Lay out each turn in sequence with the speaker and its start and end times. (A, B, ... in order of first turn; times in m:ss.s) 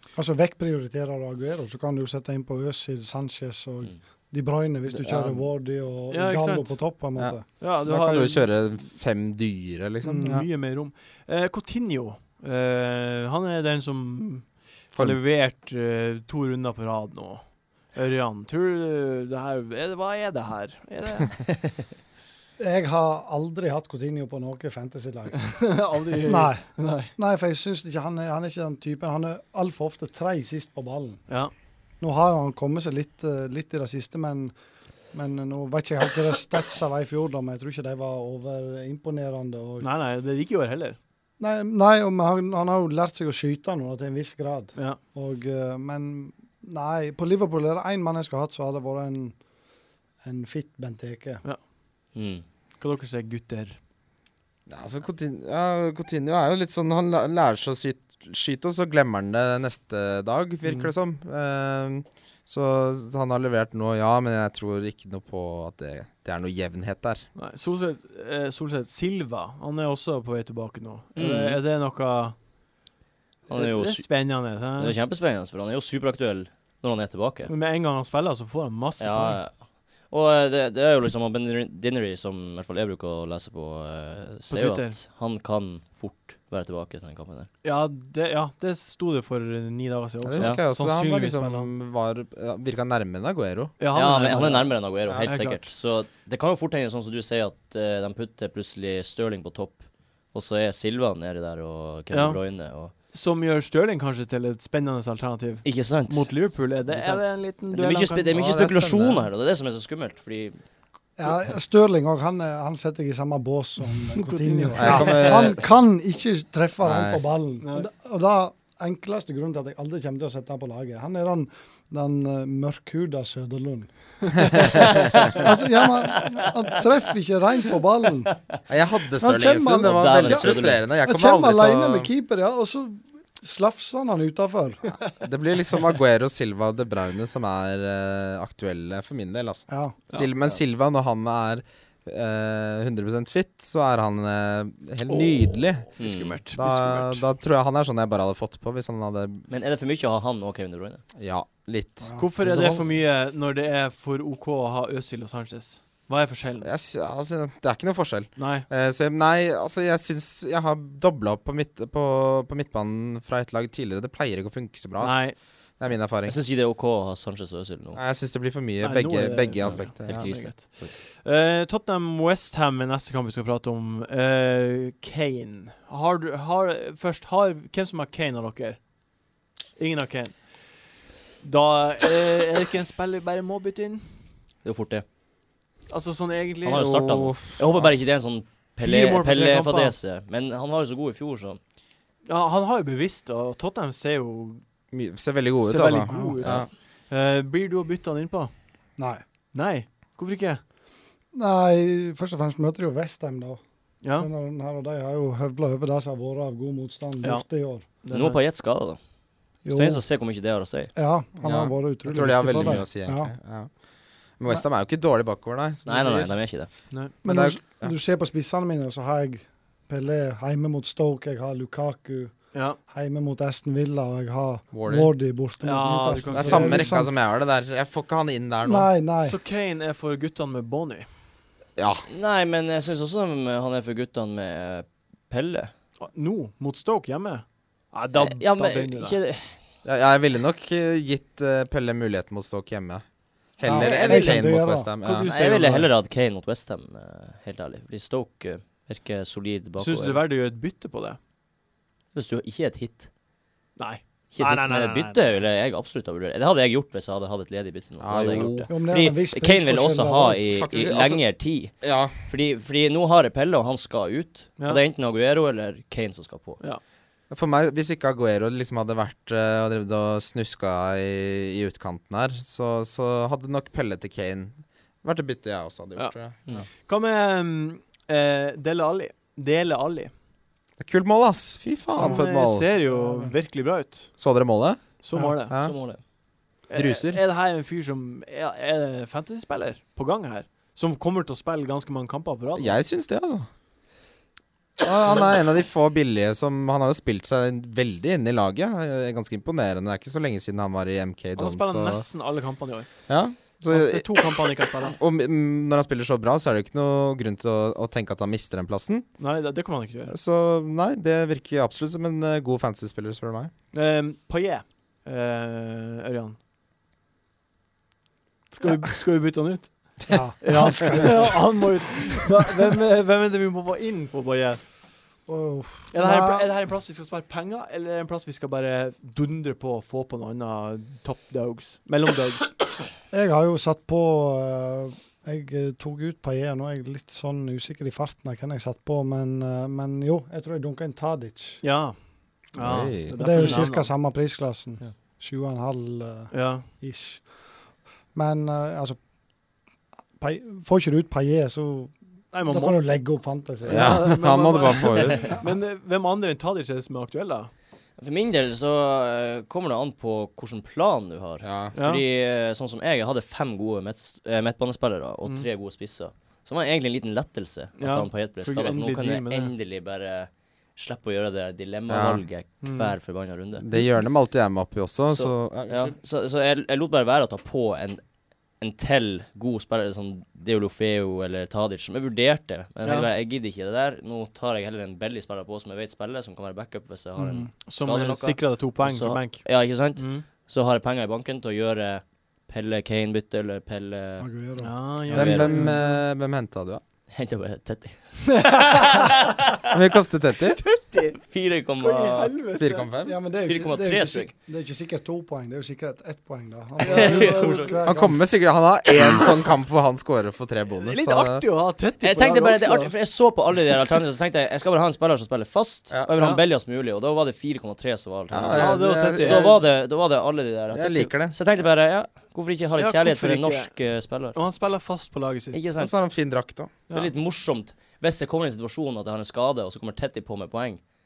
0:00.2-0:07.4 A
0:04.9-0:05.4 B
0:06.1-0:06.9 C
0:07.2-0:10.4 B
0:07.6-0:08.5 C
0:10.0-0:10.4 A
0:10.2-0:21.4 C
0:14.9-0:15.2 B
0:22.6-0:31.2 A
0:25.3-0:27.1 C
0:32.0-0:34.5 A
0:35.1-0:39.9 A
0:39.8-0:41.0 C
0:41.4-0:49.4 A
0:50.2-0:51.4 A
0:52.1-0:52.4 D
0:52.8-0:53.8 C
0:54.7-1:07.2 B
1:00.6-1:00.9 C
1:07.3-1:12.4 C
1:11.1-1:11.6 D
1:13.5-1:14.1 D
1:13.5-1:15.0 C
1:14.8-1:17.5 D
1:17.5-1:19.4 C
1:19.0-1:19.6 D
1:20.1-1:27.5 D
1:24.5-1:25.0 C
1:27.6-1:31.7 C
1:30.2-1:33.7 B
1:33.8-1:35.6 C
1:33.9-1:39.8 D
1:40.3-1:42.9 D
1:42.1-1:42.4 C
1:43.1-1:48.4 C
1:45.6-1:50.6 D
1:48.3-1:49.2 B
1:51.2-2:08.4 A
1:54.1-1:55.5 C
1:54.8-1:55.6 B
1:56.8-1:57.2 B
1:57.6-1:57.9 C
2:04.6-2:05.4 B
2:04.6-2:05.4 C
2:08.7-2:12.1 B
2:09.2-2:14.9 A
2:09.8-2:10.8 D
2:15.2-2:26.0 B
2:19.7-2:20.0 A
2:25.1-2:27.2 C
2:26.0-2:26.4 D
2:26.5-2:29.4 B
2:29.5-2:31.0 D
2:31.2-2:32.2 B
2:32.0-2:32.3 A
2:32.2-2:36.7 C
2:32.4-2:32.9 D
2:36.6-2:46.4 B
2:38.4-2:38.6 C
2:45.0-2:45.4 C
2:46.2-2:48.0 D
2:48.0-2:50.3 B
2:48.8-2:58.8 C
2:49.6-2:51.0 D
2:59.8-3:00.8 C
3:01.4-3:04.1 C
3:04.6-3:05.0 D
3:05.9-3:06.9 C
3:06.6-3:11.6 D
3:06.7-3:07.9 B
3:08.8-3:09.9 C
3:12.2-3:14.6 C
3:14.9-3:16.7 B
3:15.6-3:18.5 C
3:16.1-3:16.6 A
3:19.0-3:19.2 A
3:19.5-3:20.6 C
3:21.3-3:23.6 A
3:24.0-3:24.3 C
3:24.1-3:27.8 A
3:27.2-3:28.4 C
3:28.1-3:29.0 D
3:29.6-3:30.0 A
3:29.7-3:30.9 D
3:30.9-3:33.3 A
3:31.4-3:33.7 B
3:34.4-3:36.3 B
3:35.8-3:36.7 D
3:37.2-3:37.9 B
3:37.2-3:42.3 A
3:42.5-3:42.8 C
3:42.9-3:47.1 A
3:44.7-3:45.1 B
3:45.6-3:47.0 C
3:46.3-3:48.9 B
3:48.6-3:49.4 A
3:49.2-3:51.1 C
3:51.8-3:52.1 B
3:52.1-3:55.7 D
3:56.0-3:59.2 C
3:58.1-3:59.6 D
3:59.8-4:03.0 B
4:03.6-4:05.3 B
4:03.6-4:04.9 A
4:03.7-4:04.4 C
4:05.0-4:05.9 C
4:05.2-4:10.2 D
4:09.8-4:11.2 C
4:12.1-4:13.1 D
4:13.8-4:15.2 C
4:14.3-4:26.6 D
4:18.0-4:18.7 B
4:18.3-4:18.6 C
4:18.7-4:20.4 A
4:20.5-4:21.2 B
4:21.8-4:22.1 B
4:27.3-4:36.7 B
4:36.8-4:40.1 C
4:40.8-4:42.7 B
4:41.9-4:44.1 C
4:42.8-4:43.3 A
4:44.2-4:44.8 B
4:45.0-4:45.5 C
4:45.5-4:45.7 B
4:45.6-4:46.0 D
4:46.7-4:52.8 C
4:46.7-4:47.2 B
4:52.6-4:53.5 B
4:54.8-5:02.1 B
5:01.4-5:02.9 C
5:03.1-5:04.1 B
5:03.5-5:05.0 C
5:04.8-5:09.1 B
5:09.2-5:10.1 C
5:10.1-5:13.5 B
5:13.7-5:16.4 C
5:18.5-5:24.6 C
5:20.1-5:21.6 A
5:25.3-5:26.5 A
5:25.9-5:32.6 C
5:33.1-5:41.6 A
5:41.6-5:42.0 C
5:42.5-5:43.9 C
5:42.6-5:43.1 B
5:43.1-5:47.2 A
5:43.3-5:43.6 D
5:46.3-5:46.7 C
5:48.1-5:49.0 A
5:50.2-5:54.1 A
5:52.3-5:52.8 C
5:53.6-5:57.5 C
5:53.7-5:55.4 B
5:58.0-6:13.6 D
6:01.4-6:01.7 B
6:01.7-6:02.0 C
6:07.8-6:09.5 C
6:11.9-6:12.2 B
6:12.6-6:12.9 C
6:13.6-6:16.0 B
6:15.1-6:18.0 D
6:18.6-6:34.3 D
6:22.8-6:23.1 C
6:27.2-6:27.5 A
6:27.6-6:30.2 C
6:34.2-6:34.7 A
6:34.6-6:36.0 C
6:35.1-6:35.6 D
6:35.1-6:36.8 B
6:37.1-6:39.6 D
6:38.3-6:39.1 C
6:39.7-6:40.6 B
6:40.5-6:41.2 C
6:40.9-6:42.4 D
6:41.8-6:42.9 C
6:42.6-6:43.2 B
6:43.0-6:48.2 A
6:43.4-6:44.3 D
6:46.8-6:47.8 C
6:46.8-6:47.7 D
6:47.8-6:51.4 B
6:50.8-6:52.9 C
6:52.0-7:04.4 D
6:56.2-6:56.4 C
6:58.3-6:59.6 B
6:58.5-6:59.5 C
7:00.7-7:01.4 B
7:02.8-7:03.7 C
7:04.3-7:05.6 C
7:05.5-7:05.9 D
7:05.8-7:06.7 B
7:06.9-7:10.8 D